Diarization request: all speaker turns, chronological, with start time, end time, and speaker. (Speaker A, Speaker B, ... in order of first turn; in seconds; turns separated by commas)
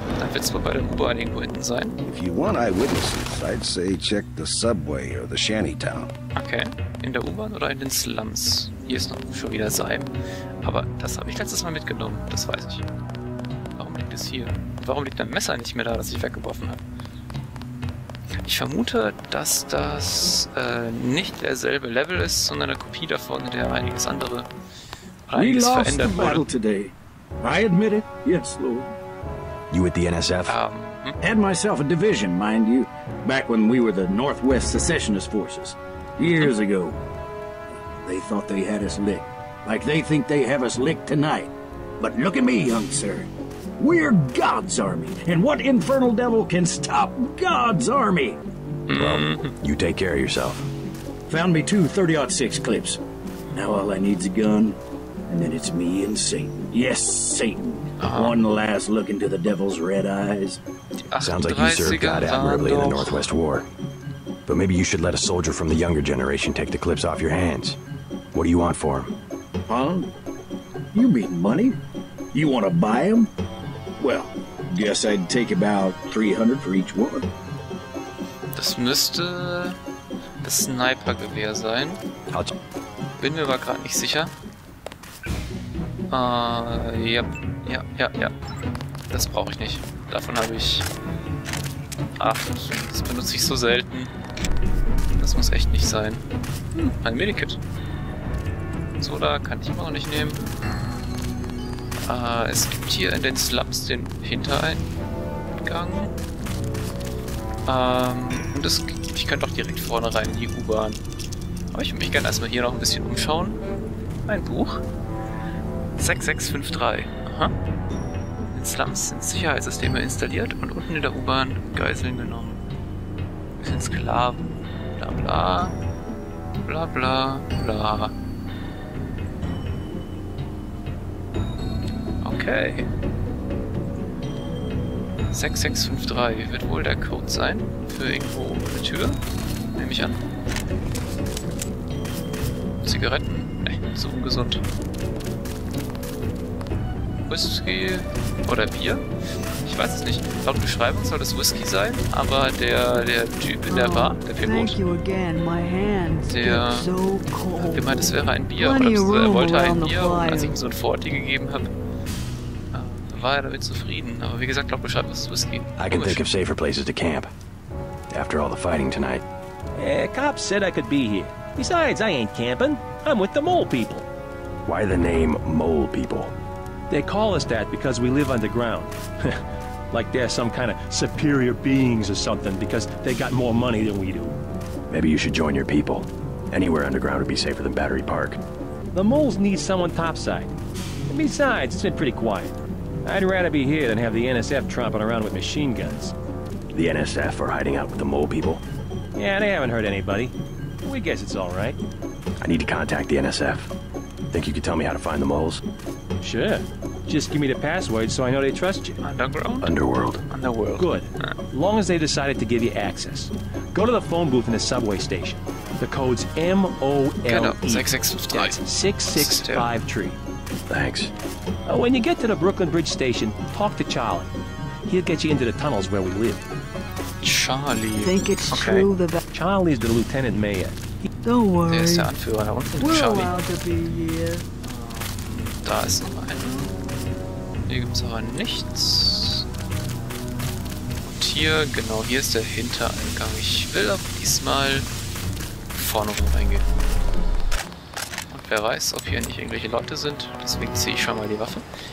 Speaker A: 0.2-1.9, Speaker B: 2.0-6.1, Speaker A: 6.4-12.8, Speaker A: 13.8-16.8, Speaker A: 18.4-24.5, Speaker A: 25.3-26.4, Speaker C: 25.3-28.9, Speaker D: 29.7-30.6, Speaker A: 30.5-31.2, Speaker C: 31.2-37.0, Speaker C: 37.7-48.4, Speaker A: 48.9-49.6, Speaker D: 48.9-50.7, Speaker C: 51.3-53.0, Speaker C: 53.5-60.6, Speaker A: 58.0-58.4, Speaker A: 61.1-63.2, Speaker D: 61.2-63.7, Speaker D: 64.5-67.8, Speaker D: 68.3-69.1, Speaker C: 69.7-70.1, Speaker C: 70.9-71.8, Speaker C: 72.3-73.3, Speaker C: 74.0-77.3, Speaker A: 78.5-79.8, Speaker A: 80.4-82.0, Speaker A: 83.2-84.3, Speaker A: 86.1-88.3, Speaker A: 89.1-90.9, Speaker A: 92.2-94.1, Speaker A: 95.2-96.2, Speaker A: 96.8-97.6, Speaker A: 99.0-100.4, Speaker A: 102.1-104.9, Speaker A: 105.6-106.1, Speaker A: 107.7-111.0, Speaker A: 111.7-113.6, Speaker A: 114.3-114.8, Speaker A: 116.0-117.5, Speaker A: 118.5-122.6, Speaker A: 123.6-125.8, Speaker A: 126.6-128.1, Speaker A: 132.2-132.9, Speaker A: 135.3-139.2, Speaker A: 139.8-140.2, Speaker A: 142.8-144.6, Speaker A: 147.3-149.1, Speaker A: 149.6-154.8, Speaker E: 153.6-160.6, Speaker A: 156.2-156.9, Speaker A: 157.6-161.7, Speaker A: 162.7-166.2, Speaker D: 165.8-167.3, Speaker D: 168.1-169.2, Speaker F: 169.8-174.1, Speaker D: 174.7-176.3, Speaker F: 176.9-184.4, Speaker D: 184.9-188.4, Speaker F: 188.9-190.5, Speaker F: 191.1-196.1, Speaker D: 196.7-198.6, Speaker F: 199.1-201.8, Speaker D: 202.4-203.7, Speaker D: 204.3-205.6, Speaker F: 206.2-209.0, Speaker A: 209.0-209.7, Speaker D: 209.6-210.2, Speaker A: 210.3-211.3, Speaker F: 210.8-220.2, Speaker A: 217.2-218.6, Speaker A: 219.1-219.8, Speaker D: 220.7-221.1, Speaker F: 221.7-224.3, Speaker F: 224.9-226.4, Speaker A: 227.2-228.9, Speaker E: 228.0-229.2, Speaker F: 229.3-231.1, Speaker E: 231.2-232.1, Speaker A: 231.7-233.4, Speaker E: 232.8-234.4, Speaker A: 234.6-236.8, Speaker A: 237.7-239.4, Speaker A: 241.0-244.9, Speaker A: 245.7-246.7, Speaker A: 248.3-251.6